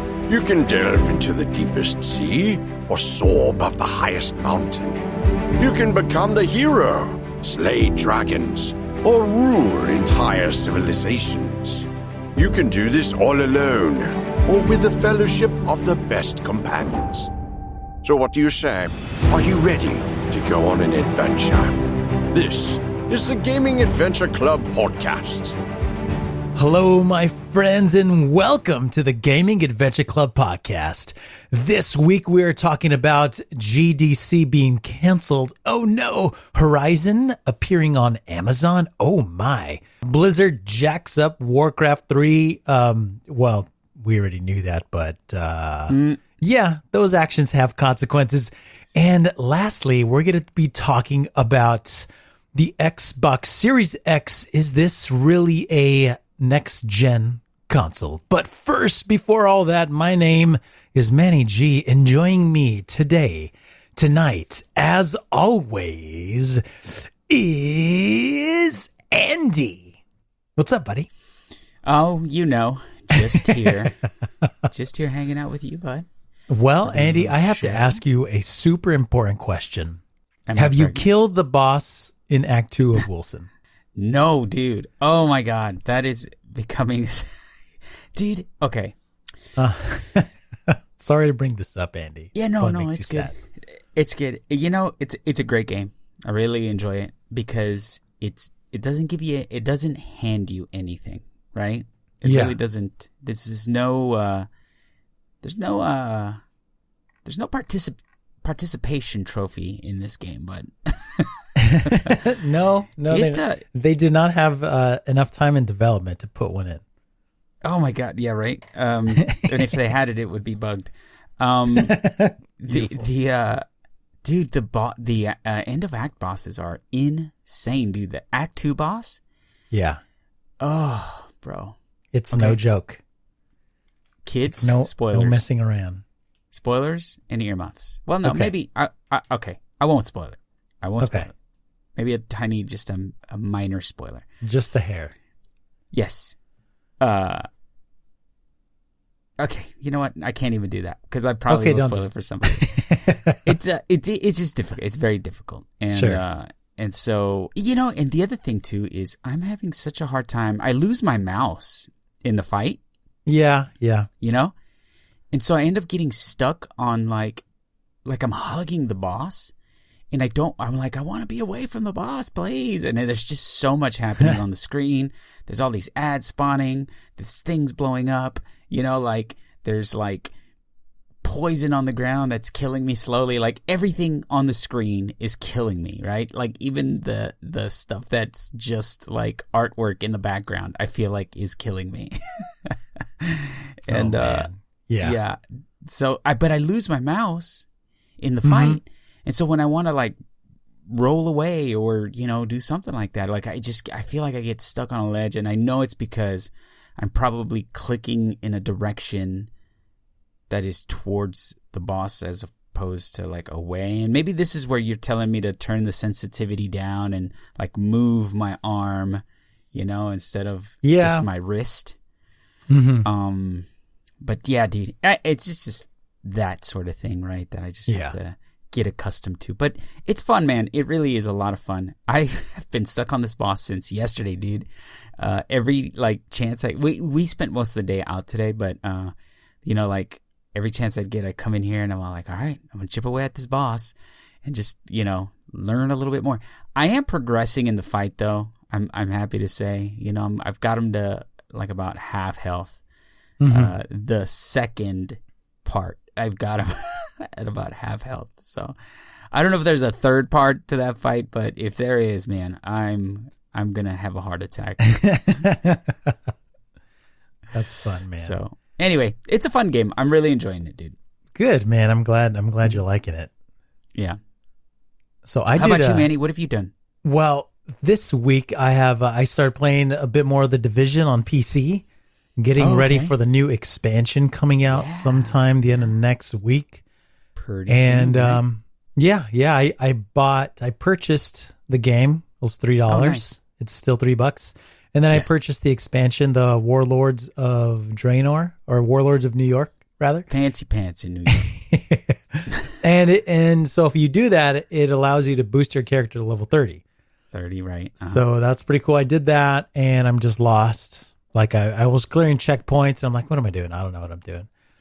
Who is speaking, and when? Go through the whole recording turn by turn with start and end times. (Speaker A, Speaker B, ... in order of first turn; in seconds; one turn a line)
Speaker A: 0.3-5.0
Speaker A: 5.6-17.3
Speaker A: 18.0-25.5
Speaker B: 26.5-70.0
Speaker C: 45.9-46.2
Speaker B: 70.5-71.1
Speaker C: 71.8-74.0
Speaker B: 73.2-73.8
Speaker C: 74.7-76.0
Speaker B: 76.5-80.0
Speaker C: 76.8-78.0
Speaker C: 80.5-81.0
Speaker B: 80.5-83.5
Speaker C: 84.0-87.3
Speaker C: 88.1-88.9
Speaker B: 89.6-93.3
Speaker C: 92.3-93.4
Speaker C: 93.9-104.5
Speaker B: 102.2-102.5
Speaker C: 105.4-106.4
Speaker C: 107.2-112.3
Speaker B: 111.6-116.8
Speaker C: 113.1-113.6
Speaker C: 117.6-122.0
Speaker B: 121.8-123.1
Speaker C: 122.6-123.6
Speaker C: 124.2-129.2
Speaker B: 129.7-130.0
Speaker C: 130.6-131.8
Speaker B: 132.1-133.0
Speaker C: 132.3-132.6
Speaker C: 134.2-135.4
Speaker B: 134.5-136.0
Speaker C: 136.5-141.3
Speaker B: 138.2-138.5
Speaker B: 141.0-141.3
Speaker C: 141.9-144.2
Speaker B: 144.4-145.1
Speaker C: 145.9-146.4
Speaker C: 147.0-147.5
Speaker C: 149.4-162.8
Speaker B: 151.5-153.4
Speaker B: 155.9-156.2
Speaker B: 163.2-164.1
Speaker C: 164.2-164.5
Speaker C: 165.3-167.4
Speaker C: 168.0-169.5
Speaker C: 170.1-180.3
Speaker C: 181.2-197.7
Speaker B: 193.9-195.2
Speaker C: 198.2-200.1
Speaker B: 198.4-198.8
Speaker C: 200.9-209.5
Speaker C: 210.5-221.9
Speaker B: 220.8-221.3
Speaker B: 222.7-223.1
Speaker C: 223.0-223.7
Speaker C: 224.2-234.7
Speaker B: 227.9-228.2
Speaker C: 235.2-252.8
Speaker B: 253.4-253.7
Speaker C: 253.5-258.7
Speaker C: 259.3-265.4
Speaker B: 264.9-266.1
Speaker B: 267.5-268.3
Speaker C: 268.1-270.9
Speaker B: 271.3-273.3
Speaker B: 275.2-276.1
Speaker C: 275.5-276.7
Speaker B: 277.0-281.8
Speaker B: 282.4-286.8
Speaker C: 282.6-283.1
Speaker C: 284.7-285.4
Speaker C: 287.4-288.4
Speaker B: 287.7-300.3
Speaker C: 292.9-293.2
Speaker C: 295.1-295.4
Speaker C: 300.3-301.5
Speaker B: 301.3-306.8
Speaker C: 307.3-308.2
Speaker B: 308.0-314.5